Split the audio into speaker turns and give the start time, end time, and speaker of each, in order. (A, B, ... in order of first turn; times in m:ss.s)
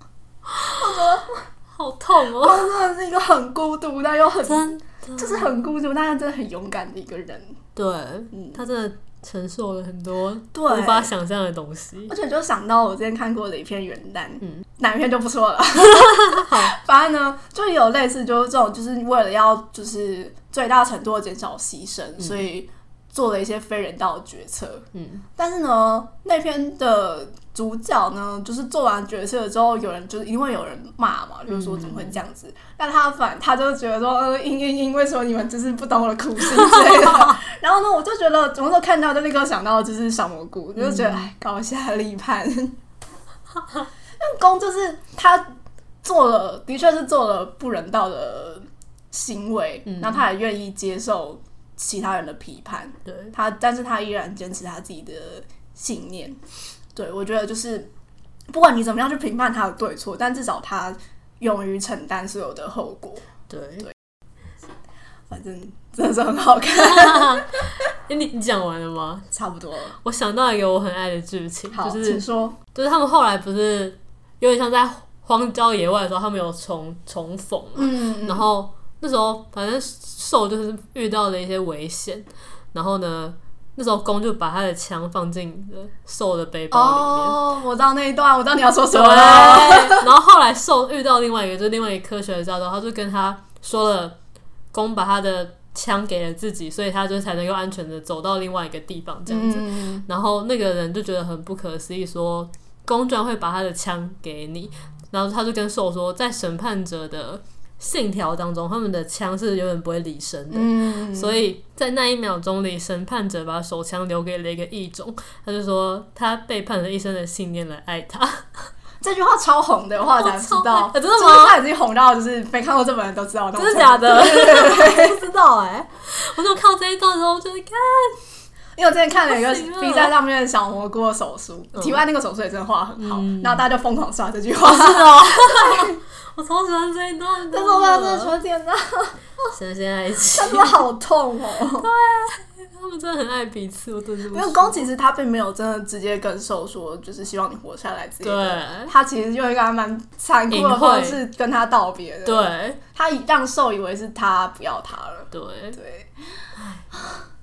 0:00.4-0:01.0 A
0:00.8-0:01.4 B
0:01.7-0:02.7 A
0:02.4-0:07.6 B
0:04.4-0:05.5 A
0:07.8-0:12.1 A
0:08.3-0:08.6 B
0:10.5-0:11.1 B
0:12.1-0:42.7 B
0:15.9-0:16.7 A
0:24.9-0:25.2 A
0:31.5-0:32.1 A
0:36.6-0:37.2 A
0:40.8-0:41.2 A
0:44.2-0:45.4 B
0:46.0-0:56.4 B
0:49.9-0:50.1 A
0:53.1-0:53.3 A
0:56.9-0:57.9 B
0:58.5-1:03.2 B
1:03.5-1:03.8 A
1:05.3-1:07.4 B
1:06.7-1:09.3 A
1:09.3-1:10.0 B
1:10.0-1:27.4 A
1:11.7-1:12.6 B
1:17.8-1:18.5 B
1:26.7-1:30.1 B
1:28.9-1:34.2 A
1:34.7-1:58.7 A
1:39.3-1:40.0 B
1:50.5-1:51.4 B
1:59.0-2:05.2 B
2:00.2-2:01.6 A
2:03.5-2:08.2 A
2:08.8-2:16.0 B
2:09.2-2:10.1 A
2:13.0-2:13.7 A
2:14.6-2:18.3 A
2:17.5-2:19.5 B
2:19.5-2:20.8 A
2:20.3-2:21.9 B
2:21.8-2:24.8 A
2:24.3-2:36.1 B
2:28.2-2:28.9 A
2:30.5-2:31.2 A
2:32.2-2:32.8 A
2:35.3-2:35.8 A
2:36.6-2:36.8 A